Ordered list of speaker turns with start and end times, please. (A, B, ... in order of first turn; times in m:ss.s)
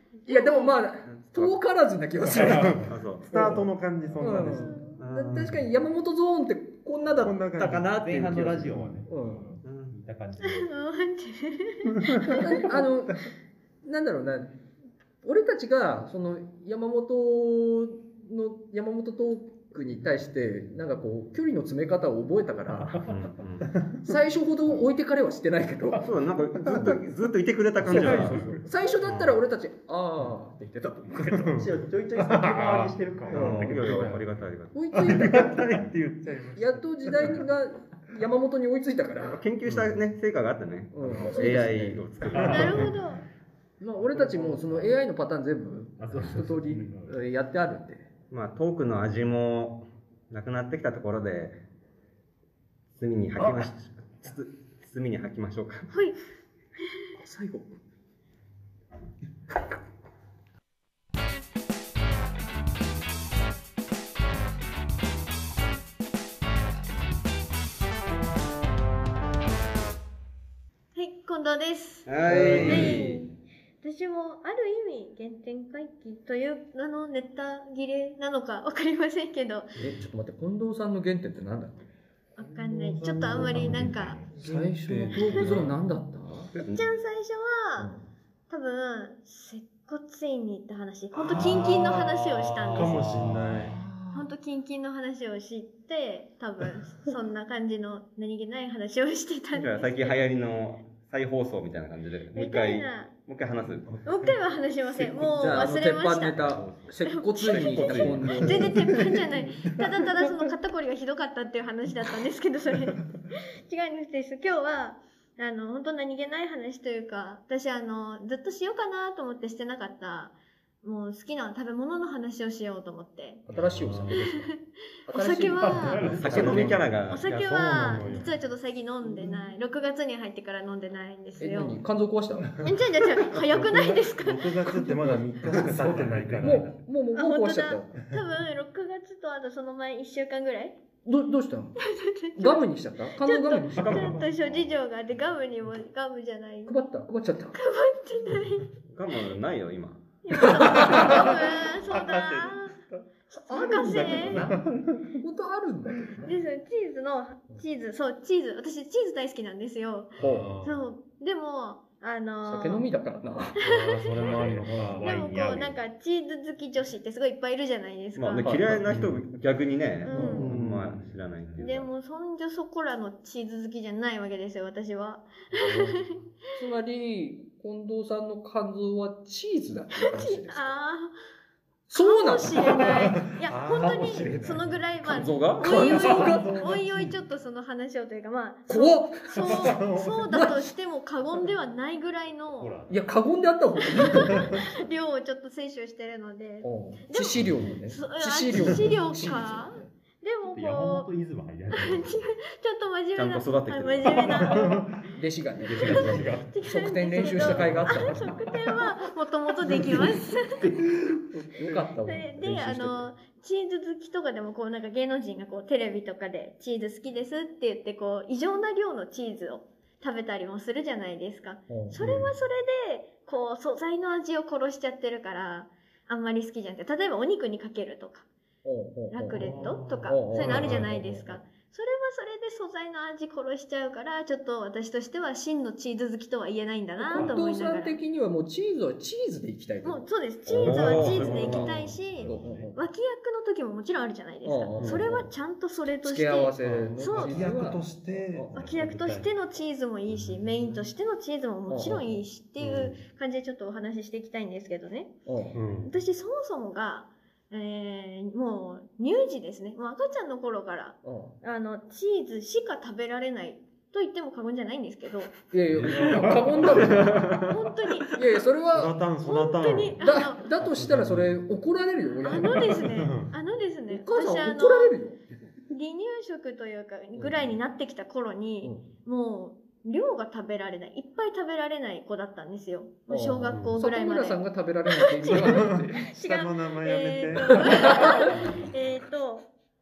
0:00.3-0:00.8 A
0:00.3-0:03.6 B
0:01.1-0:01.6 C
0:02.3-0:02.9 D
0:02.4-0:05.6 E
0:02.9-0:03.3 C
0:04.2-0:07.4 B
0:04.6-0:05.0 A
0:05.0-0:05.6 C
0:07.2-0:09.0 E
0:07.6-0:10.8 D
0:07.6-0:07.9 C
0:09.1-0:09.5 B
0:09.6-0:10.0 C
0:10.4-0:12.7 A
0:12.0-0:12.4 E
0:12.3-0:13.2 B
0:13.8-0:14.5 B
0:15.2-0:23.0 B
0:23.0-0:23.7 C
0:24.0-0:26.1 B
0:26.0-0:28.6 C
0:26.7-0:27.0 E
0:27.8-0:29.4 E
0:27.8-0:31.6 B
0:31.3-0:33.0 E
0:31.3-0:34.2 D
0:33.3-0:33.7 B
0:33.3-0:34.8 C
0:33.7-0:34.2 E
0:34.7-0:35.6 B
0:34.9-0:37.4 E
0:36.5-0:39.4 B
0:39.3-0:42.9 C
0:39.7-0:39.9 E
0:40.9-0:42.1 B
0:42.2-0:43.0 D
0:42.4-0:42.9 E
0:42.5-0:43.2 A
0:43.8-0:48.0 B
0:44.0-0:45.0 D
0:46.0-0:47.2 D
0:48.3-0:51.6 C
0:53.0-0:55.9 C
0:55.9-0:56.2 A
0:57.2-0:57.8 B
1:11.0-1:19.7 A
1:12.1-1:13.2 C
1:12.3-1:13.1 B
1:19.8-1:21.8 B
1:22.4-1:24.2 A
1:22.4-1:25.7 E
1:23.3-1:24.3 D
1:24.4-1:26.5 B
1:25.1-1:25.4 A
1:26.5-1:26.8 C
1:26.7-1:27.9 A
1:27.8-1:28.1 B
1:28.5-1:33.2 A
1:31.1-1:33.8 E
1:33.4-1:34.3 B
1:34.1-1:40.2 A
1:39.6-1:44.0 C
1:42.3-1:43.1 A
1:43.9-1:44.4 E
1:44.0-1:46.4 A
1:45.3-1:48.7 B
1:46.4-1:46.7 C
1:47.0-2:03.4 A
1:47.4-1:48.7 C
1:48.3-1:50.3 E
2:03.5-2:04.5 B
2:03.5-2:04.1 E
2:04.1-2:04.6 A
2:05.1-2:06.9 B
2:05.1-2:06.1 A
2:05.6-2:06.9 D
2:05.9-2:08.3 E
2:06.2-2:07.3 C
2:07.1-2:11.8 A
2:09.0-2:09.4 B
2:11.4-2:12.5 B
2:12.6-2:15.2 A
2:13.2-2:16.7 E
2:15.5-2:18.0 B
2:15.9-2:16.7 D
2:17.1-2:20.8 A
2:21.1-2:21.8 B
2:21.8-2:26.8 A
2:22.4-2:24.1 B
2:23.8-2:24.8 C
2:23.8-2:24.3 E
2:26.7-2:27.6 B
2:27.5-2:28.7 A
2:28.9-2:30.2 C
2:30.2-2:32.8 A
2:30.3-2:31.2 B
2:30.8-2:32.6 E
2:33.3-2:34.5 A
2:33.5-2:34.6 B
2:33.7-2:35.2 E
2:35.2-2:36.3 B
2:36.2-2:42.8 A
2:40.2-2:40.5 B
2:40.2-2:40.8 E
2:42.4-2:43.6 B
2:43.6-2:44.4 A
2:43.6-2:45.1 E
2:44.1-2:45.8 D
2:44.4-2:45.0 B
2:45.0-2:48.8 A
2:48.2-2:51.9 C
2:48.4-2:48.8 B
2:48.9-2:49.2 E
2:50.0-2:50.5 A
2:50.1-2:50.5 B
2:50.4-2:51.0 E
2:51.6-2:56.2 A
2:55.5-2:56.0 E
2:56.6-3:00.8 B
3:00.0-3:01.2 A
3:01.9-3:03.2 B
3:02.0-3:12.8 A
3:02.7-3:04.8 E
3:03.8-3:04.6 B
3:04.3-3:04.8 D
3:05.0-3:05.7 C
3:05.6-3:06.5 B
3:05.7-3:07.2 E
3:08.7-3:10.6 B
3:09.3-3:10.4 E
3:12.6-3:13.0 D
3:12.9-3:14.5 B
3:13.8-3:21.1 A
3:14.4-3:14.6 E
3:16.6-3:19.9 B
3:20.4-3:22.2 D
3:21.7-3:25.1 A
3:23.2-3:24.5 C
3:24.4-3:24.8 D
3:24.4-3:24.9 E
3:25.1-3:28.2 B
3:25.6-3:26.6 D
3:25.8-3:30.7 A
3:26.1-3:26.4 E
3:27.1-3:28.5 D
3:27.6-3:28.3 E
3:29.7-3:30.0 B
3:29.7-3:30.0 E
3:31.5-3:33.1 B
3:32.0-3:48.3 A
3:41.7-3:42.0 B
3:42.0-3:42.3 E
3:48.6-3:51.4 B
3:49.1-3:58.0 A
3:49.3-3:50.9 E
3:57.0-4:00.0 B
3:59.8-4:07.5 A
4:00.5-4:01.4 C
4:00.6-4:01.7 E
4:00.6-4:02.8 B
4:00.9-4:02.7 D
4:04.4-4:05.3 B
4:04.8-4:05.0 E
4:06.0-4:08.6 B
4:06.6-4:09.3 E
4:08.5-4:15.2 A
4:11.7-4:12.2 B
4:12.6-4:13.0 E
4:15.3-4:15.6 B
4:15.6-4:15.9 E
4:15.8-4:25.4 A
4:21.0-4:21.4 B
4:25.5-4:27.2 B
4:25.7-4:28.1 E
4:27.0-4:27.4 C
4:27.4-4:28.2 A
4:28.1-4:29.0 B
4:28.7-4:31.4 E
4:29.2-4:30.5 A
4:30.0-4:32.7 B
4:32.2-4:35.0 A
4:32.6-4:33.3 E
4:33.9-4:35.2 B
4:35.7-4:49.4 A
4:37.1-4:37.6 B
4:43.1-4:46.0 B
4:45.3-4:48.8 E
4:47.5-4:48.3 B